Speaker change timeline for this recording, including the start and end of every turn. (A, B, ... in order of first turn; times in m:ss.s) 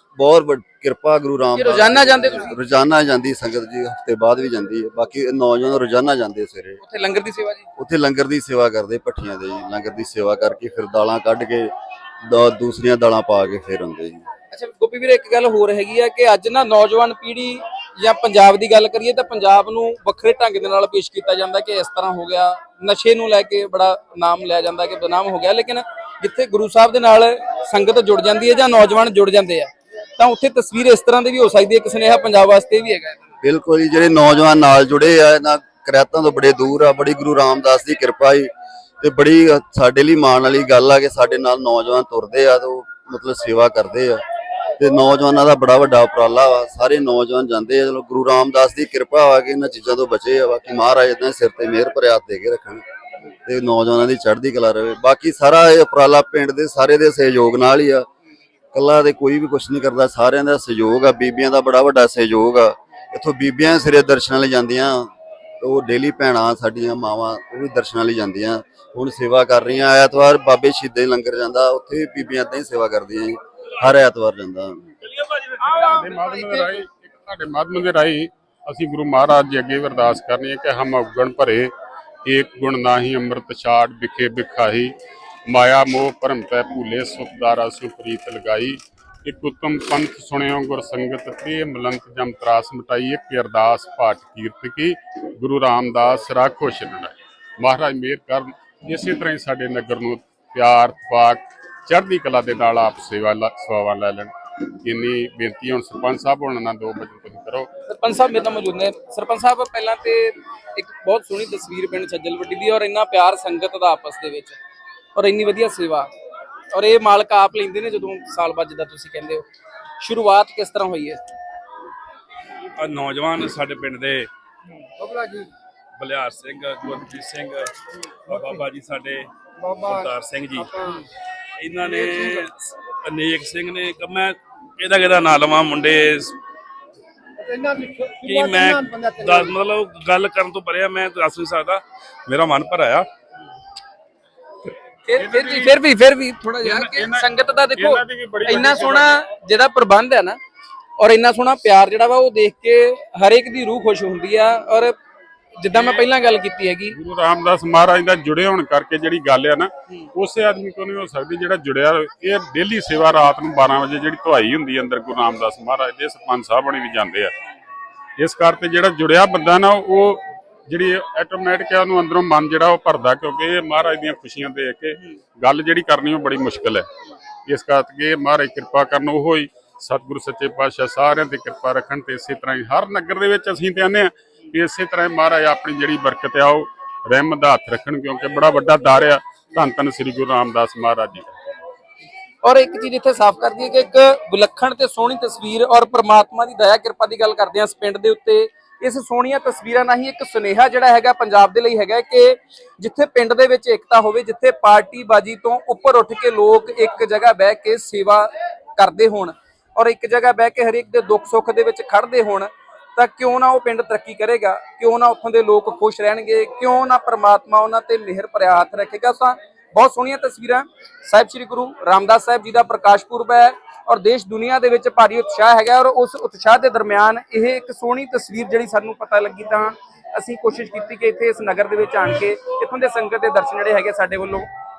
0:00.2-0:06.8 A
0:01.6-0:02.6 B
0:06.8-0:07.7 B
0:07.8-0:14.3 A
0:14.5-0:33.2 B
0:33.4-0:44.2 A
0:44.8-0:52.8 A
0:53.4-0:58.1 A
0:58.7-1:14.8 A
1:15.0-1:15.8 C
1:15.7-1:16.7 B
1:15.8-1:21.7 D
1:22.2-1:24.9 D
1:25.5-1:47.7 D
1:47.9-1:54.6 B
1:55.2-1:56.1 B
1:56.7-1:59.4 B
2:00.0-2:01.2 B
2:02.8-2:04.3 C
2:05.0-2:07.7 C
2:08.3-2:11.0 C
2:11.6-2:16.4 C
2:17.4-2:23.1 C
2:25.1-2:30.4 B
2:25.2-2:25.8 D
2:26.6-2:29.2 D
2:31.0-2:35.0 B
2:35.6-2:37.0 B
2:35.8-2:36.0 D
2:36.9-2:47.3 D
2:48.2-2:56.8 D
2:57.5-3:11.4 D
3:12.4-3:54.5 B